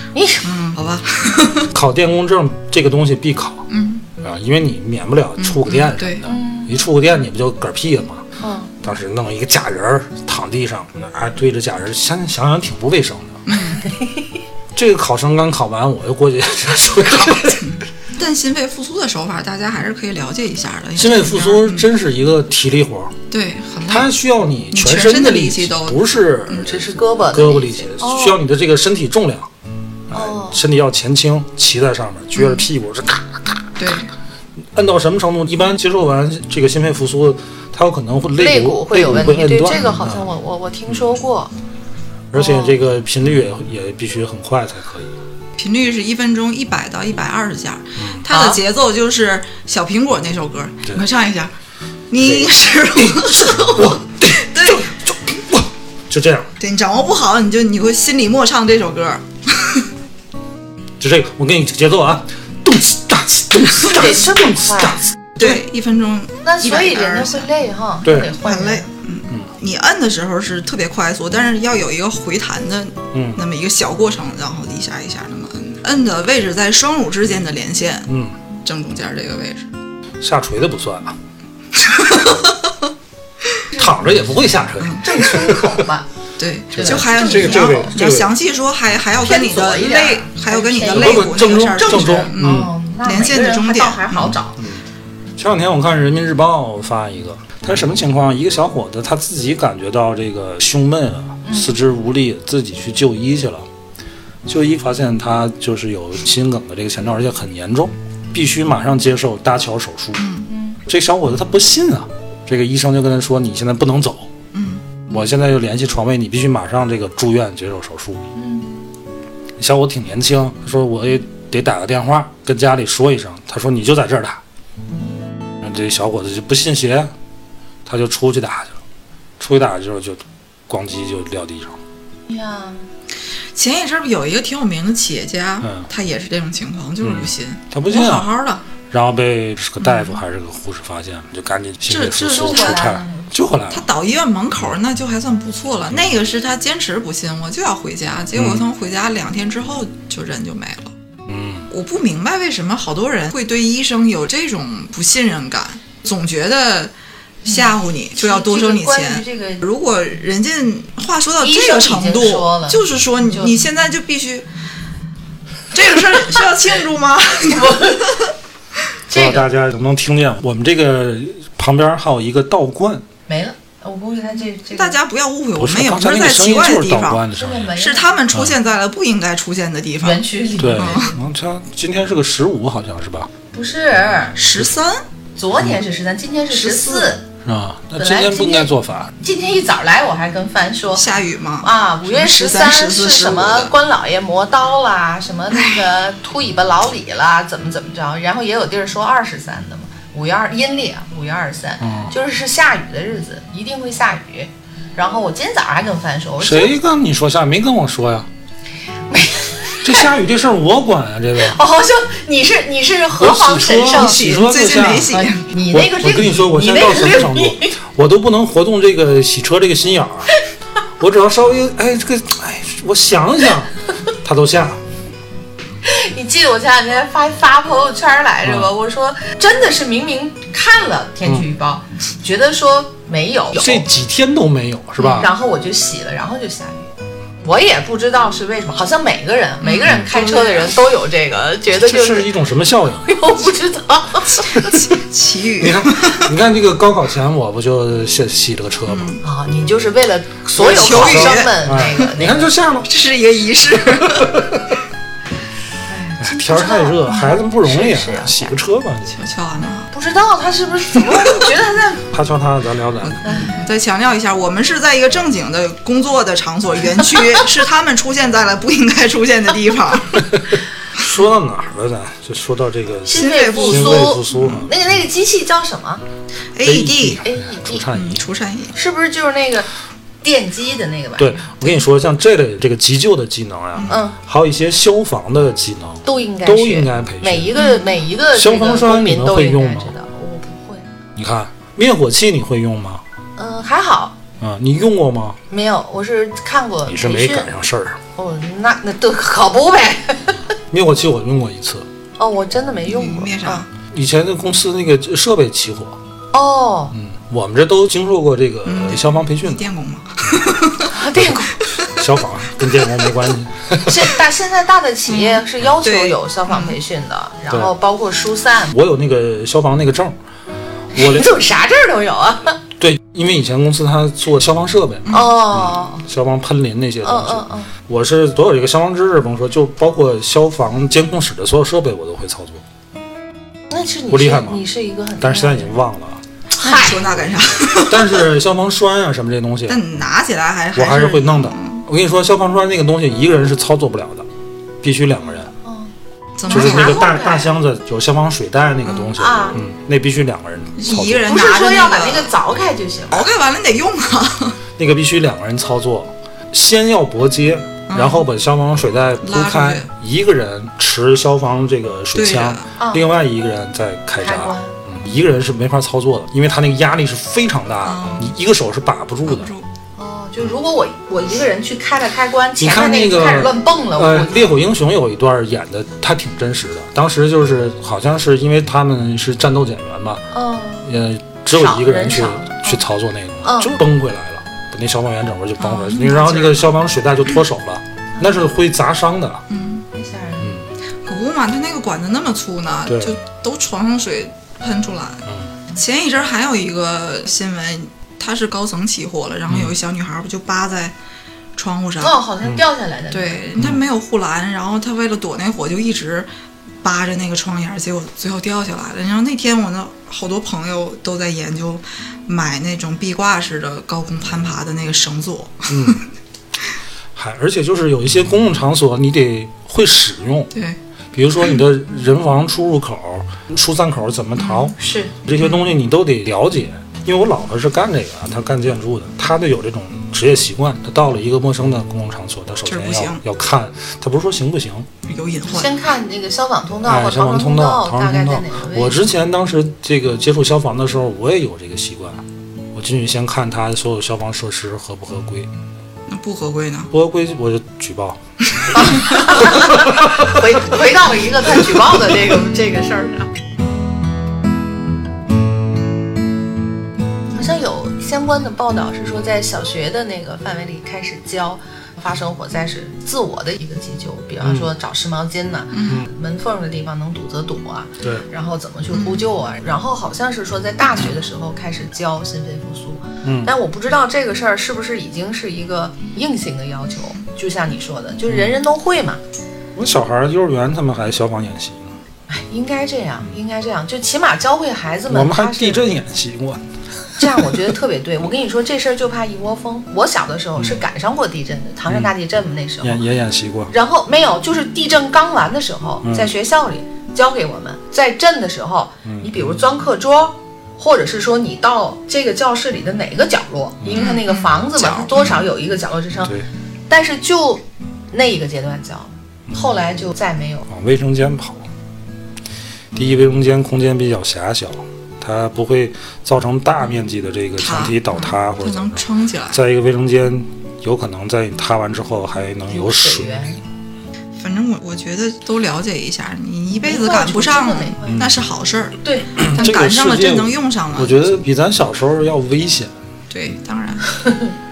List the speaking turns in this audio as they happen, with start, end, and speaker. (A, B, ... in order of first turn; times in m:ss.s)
0:00.1-0:00.5 A
0:00.4-0:01.7 B
0:01.7-0:03.6 C
0:03.7-0:04.0 B
0:04.2-0:08.3 C
0:05.4-0:06.3 B
0:06.2-0:06.8 A
0:08.4-0:08.7 A
0:08.8-0:13.6 C
0:13.5-0:13.9 B
0:13.8-0:14.3 A
0:14.7-0:17.7 C
0:17.4-0:21.9 B
0:21.0-0:23.2 C
0:23.3-0:24.1 B
0:23.9-0:29.5 C
0:24.7-0:26.7 B
0:26.5-0:28.4 A
0:30.1-0:33.7 C
0:30.1-0:30.6 A
0:32.4-0:32.7 B
0:33.8-0:34.1 B
0:34.7-0:40.3 C
0:38.4-0:41.5 A
0:42.3-0:45.2 C
0:42.4-0:42.8 A
0:45.6-0:51.5 B
0:48.0-0:48.2 C
0:48.3-0:48.6 A
0:52.1-0:54.9 B
0:52.2-0:56.5 C
0:56.6-0:59.9 B
1:01.0-1:05.6 C
1:03.9-1:05.0 A
1:05.4-1:07.5 B
1:06.4-1:08.9 A
1:08.0-1:08.3 C
1:08.1-1:19.7 B
1:13.1-1:13.4 C
1:18.1-1:18.4 C
1:20.2-1:21.2 C
1:21.8-1:22.7 B
1:23.7-1:24.1 A
1:23.8-1:25.6 C
1:24.8-1:25.3 B
1:25.0-1:26.1 A
1:26.4-1:34.4 B
1:26.8-1:28.0 A
1:26.8-1:28.3 C
1:29.2-1:34.6 A
1:30.9-1:32.7 C
1:34.6-1:34.8 C
1:35.4-1:43.7 C
1:41.4-1:41.8 A
1:44.5-1:50.2 C
1:50.2-1:50.5 B
1:50.5-1:50.8 A
1:50.9-1:54.3 C
1:54.5-1:54.8 B
1:55.1-1:58.2 C
1:58.4-1:58.7 A
1:59.6-2:04.4 C
2:05.6-2:07.1 C
2:07.9-2:08.8 C
2:09.4-2:11.8 C
2:12.3-2:12.8 A
2:13.6-2:18.6 B
2:17.0-2:18.3 C
2:18.9-2:23.9 C
2:19.8-2:20.1 B
2:21.9-2:23.0 B
2:22.3-2:23.3 A
2:23.7-2:30.9 B
2:28.4-2:28.6 C
2:31.3-2:31.7 C
2:31.7-2:36.9 B
2:37.4-2:39.6 A
2:37.5-2:44.5 B
2:41.4-2:43.6 A
2:45.7-2:48.3 B
2:47.5-2:48.3 A
2:49.1-2:49.5 A
2:49.1-2:53.0 C
2:53.3-2:55.0 A
2:54.7-3:00.2 B
2:55.6-2:57.7 C
2:57.3-2:58.2 A
3:00.0-3:01.2 A
3:00.6-3:03.3 C
3:00.7-3:01.1 B
3:03.5-3:04.4 A
3:04.4-3:05.0 B
3:05.4-3:07.2 A
3:06.5-3:07.2 B
3:07.4-3:09.1 C
3:08.0-3:11.1 A
3:10.9-3:13.7 B
3:11.6-3:26.8 A
3:15.5-3:15.9 B
3:21.8-3:22.1 C
3:26.4-3:28.3 C
3:29.1-3:30.1 A
3:29.8-3:31.6 C
3:31.4-3:34.5 A
3:33.2-3:35.1 C
3:34.0-3:35.5 B
3:35.1-3:37.8 A
3:35.7-3:40.3 C
3:41.0-3:44.8 C
3:45.8-3:53.9 A
3:48.4-3:48.7 C
3:53.6-3:55.3 C
3:55.0-3:55.3 B
3:55.0-3:56.9 A
3:57.4-4:02.3 A
3:59.6-4:00.8 B
4:01.7-4:03.3 C
4:03.0-4:04.8 A
4:04.6-4:06.3 B
4:05.6-4:09.2 C
4:08.9-4:09.2 B
4:09.2-4:12.5 A
4:10.6-4:11.6 B
4:10.8-4:12.9 C
4:12.9-4:14.5 B
4:13.8-4:14.8 C
4:15.9-4:18.6 A
4:16.2-4:19.2 C
4:19.1-4:19.9 B
4:19.9-4:22.1 A
4:21.0-4:21.5 B
4:22.1-4:23.5 C
4:23.0-4:30.3 B
4:23.2-4:23.6 A
4:30.2-4:34.7 C
4:33.1-4:36.0 A
4:33.1-4:34.2 B
4:36.5-4:37.2 B
4:36.6-4:38.2 C
4:37.2-4:37.9 A
4:37.9-4:38.8 B
4:38.8-4:39.7 A
4:40.2-4:41.8 A
4:41.2-4:47.5 C
4:43.9-4:44.2 A
4:46.0-4:50.9 A
4:47.6-4:47.8 B
4:48.3-4:49.9 C
4:51.2-4:53.0 C
4:53.4-4:54.2 A
4:54.4-4:55.4 C
4:55.5-4:57.5 A
4:56.9-4:58.0 C
4:58.2-5:00.4 A
5:00.7-5:01.9 C
5:02.2-5:03.6 A
5:02.9-5:03.7 B
5:03.9-5:06.0 C
5:06.3-5:06.9 A
5:06.9-5:09.6 C
5:08.7-5:10.9 B
5:10.9-5:11.7 A
5:11.2-5:14.1 C
5:11.7-5:12.0 B
5:13.8-5:18.8 A
5:15.1-5:16.8 B
5:18.7-5:20.2 C
5:20.9-5:21.3 C
5:21.0-5:22.6 A
5:22.8-5:32.6 C
5:25.1-5:25.3 B
5:25.1-5:26.0 A
5:27.0-5:27.7 A
5:33.7-5:35.8 A
5:34.1-5:34.6 C
5:35.2-5:36.2 C
5:36.6-5:37.0 A
5:36.6-5:38.3 B
5:37.8-5:39.8 C
5:39.7-5:41.8 B
5:40.8-5:44.3 C
5:44.8-5:45.5 C
5:45.6-5:45.9 A
5:46.4-5:47.2 B
5:46.5-5:47.6 A
5:46.5-5:51.4 C
5:49.2-5:49.6 A
5:50.8-5:52.3 B
5:51.3-5:53.3 A
5:53.1-5:54.6 B
5:54.8-6:09.5 C
5:57.9-5:58.3 B
5:59.2-5:59.9 B
6:02.2-6:02.7 B
6:02.8-6:03.1 A
6:04.2-6:04.8 A
6:07.8-6:08.4 B
6:09.3-6:09.7 B
6:10.0-6:14.5 A
6:12.6-6:20.2 C
6:20.3-6:20.9 A
6:20.8-6:29.4 C
6:21.5-6:22.8 A
6:23.4-6:23.8 A
6:25.7-6:26.6 B
6:28.2-6:28.4 A
6:29.5-6:29.9 B
6:29.9-6:30.6 A
6:31.1-6:41.0 B
6:32.9-6:33.1 C
6:39.5-6:39.8 C
6:41.6-6:42.2 B
6:42.0-6:43.4 A
6:43.1-6:46.3 B
6:43.6-6:43.8 C
6:46.8-6:56.0 B
6:55.7-6:56.0 C
6:57.2-7:00.5 C
7:01.1-7:14.9 C
7:04.7-7:05.1 A
7:05.4-7:05.7 B
7:12.7-7:13.2 B
7:15.0-7:15.8 B
7:15.5-7:19.0 A
7:16.8-7:25.5 C
7:26.1-7:26.9 B
7:26.9-7:30.4 C
7:28.7-7:33.3 A
7:37.3-7:59.2 A
7:44.4-7:44.7 C
7:45.7-7:46.0 B
7:48.9-7:49.2 B
7:53.2-7:53.5 C
7:58.3-7:58.6 C
7:59.8-8:02.0 C
8:02.3-8:05.9 A
8:05.1-8:06.6 C
8:07.2-8:13.0 A
8:12.8-8:13.7 C
8:13.7-8:26.4 A
8:16.0-8:16.3 C
8:19.0-8:19.4 C
8:23.8-8:24.1 C
8:23.9-8:25.4 B
8:26.9-8:30.7 A
8:30.7-8:31.7 C
8:32.9-8:43.4 C
8:37.6-8:39.6 B
8:42.7-8:43.6 A
8:44.4-8:51.4 B
8:46.8-8:48.2 A
8:48.1-8:48.3 C
8:49.0-8:49.4 A
8:49.4-8:53.0 C
8:53.3-8:54.0 B
8:54.1-8:54.5 A